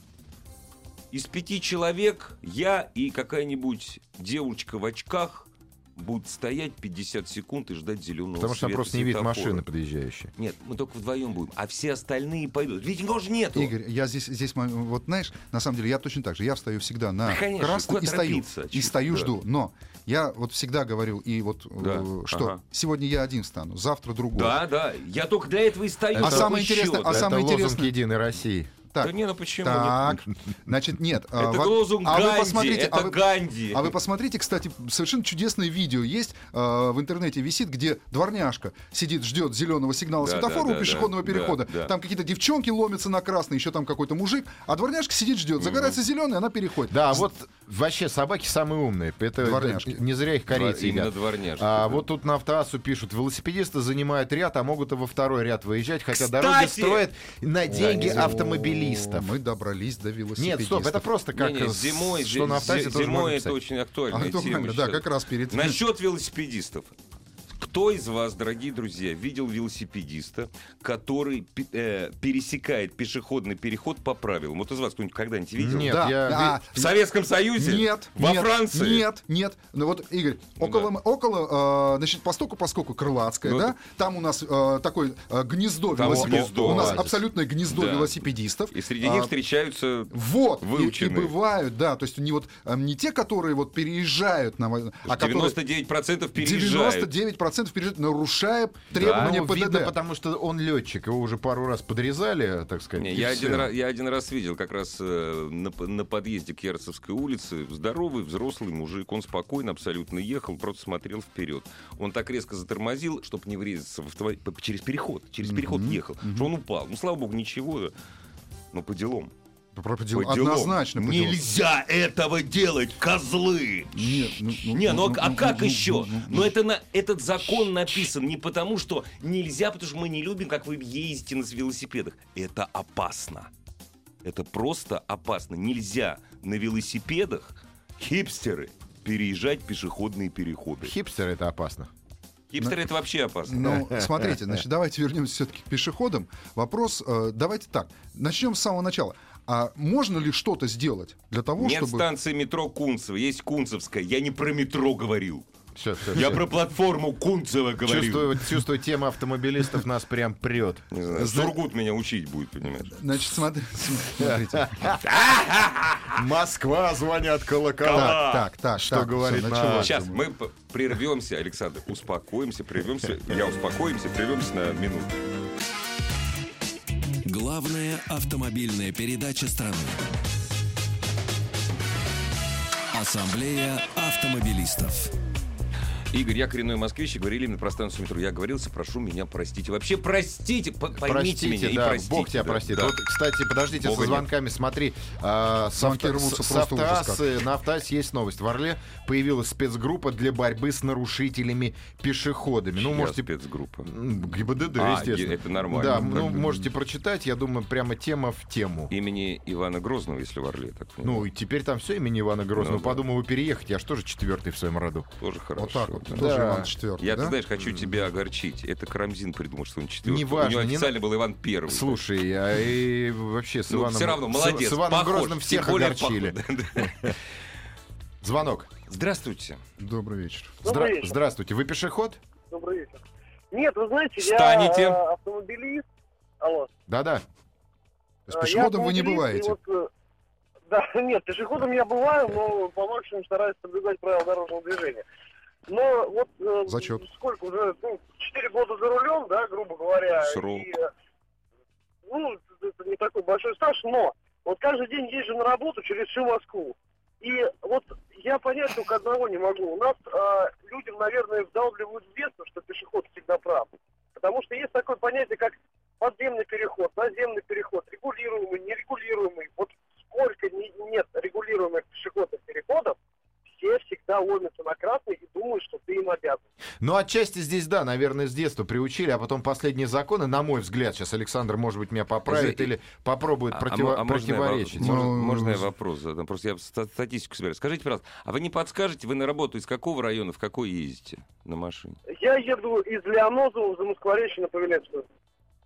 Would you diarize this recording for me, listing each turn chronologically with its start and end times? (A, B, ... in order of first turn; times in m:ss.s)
0:01.1-0:09.6 A
0:08.4-0:10.3 B
0:10.4-0:13.7 A
0:13.5-0:24.6 C
0:17.2-0:19.3 A
0:21.8-0:22.6 A
0:24.3-0:27.3 A
0:26.1-0:28.7 B
0:26.1-0:27.9 C
0:28.9-0:33.2 C
0:29.0-0:30.2 A
0:31.4-0:34.0 A
0:33.7-0:47.2 C
0:40.2-0:41.9 A
0:45.6-0:46.0 A
0:46.9-0:59.3 B
0:49.4-0:50.0 C
0:50.5-0:52.0 A
0:56.1-0:57.0 A
0:57.7-1:01.1 C
0:57.7-0:58.4 A
1:00.4-1:03.5 B
1:01.3-1:06.9 A
1:04.1-1:05.8 C
1:07.6-1:16.0 A
1:15.6-1:16.6 B
1:15.8-1:16.9 C
1:16.7-1:19.0 A
1:17.6-1:29.3 C
1:20.6-1:20.9 A
1:23.4-1:23.7 A
1:25.9-1:31.3 A
1:26.0-1:27.2 B
1:30.1-1:35.6 C
1:35.0-1:37.1 A
1:36.4-1:39.9 C
1:38.9-1:39.4 A
1:38.9-1:43.7 B
1:43.0-1:57.9 A
1:55.4-1:56.5 C
1:58.7-1:59.3 A
1:59.7-2:01.4 C
2:00.1-2:13.5 A
2:03.9-2:06.5 C
2:14.2-2:20.9 A
2:20.8-2:21.9 B
2:22.5-2:23.7 A
2:23.4-2:32.0 C
2:23.6-2:24.3 B
2:31.6-2:35.4 A
2:35.7-2:36.5 B
2:36.1-2:38.4 A
2:37.8-2:41.5 B
2:40.9-2:43.0 A
2:41.2-2:41.5 C
2:42.9-2:44.7 C
2:44.1-2:45.0 B
2:45.0-2:46.2 A
2:46.1-2:50.0 B
2:47.8-2:48.5 A
2:47.9-2:50.2 C
2:49.8-2:55.2 A
2:57.2-3:00.0 D
3:02.9-3:05.1 D
3:06.1-3:13.0 A
3:11.0-3:23.3 B
3:13.8-3:14.3 A
3:15.8-3:17.2 C
3:22.7-3:23.9 A
3:23.8-3:28.9 B
3:24.7-3:26.5 A
3:25.8-3:26.5 C
3:28.9-3:31.3 A
3:31.0-3:35.1 B
3:32.6-3:33.0 A
3:35.2-3:36.3 A
3:35.6-3:37.4 C
3:36.2-3:36.7 B
3:37.0-3:42.0 A
3:37.6-3:37.9 B
3:40.0-3:41.0 B
3:41.7-3:47.2 B
3:43.7-3:47.2 A
3:48.2-3:48.7 B
3:48.9-3:49.6 A
3:49.8-3:50.6 C
3:50.6-3:51.2 E
3:50.6-3:52.2 B
3:52.5-3:55.8 E
3:54.2-3:55.0 A
3:56.4-3:56.7 E
3:56.9-3:57.2 B
3:58.3-3:59.6 C
3:58.3-3:59.9 E
4:00.7-4:05.0 E
4:05.7-4:10.9 E
4:06.7-4:07.0 C
4:10.2-4:10.7 A
4:12.1-4:33.0 E
4:33.6-4:36.4 E
4:36.8-4:45.1 B
4:42.2-4:42.7 A
4:43.5-4:52.0 A
4:44.8-4:45.7 C
4:52.2-4:55.0 E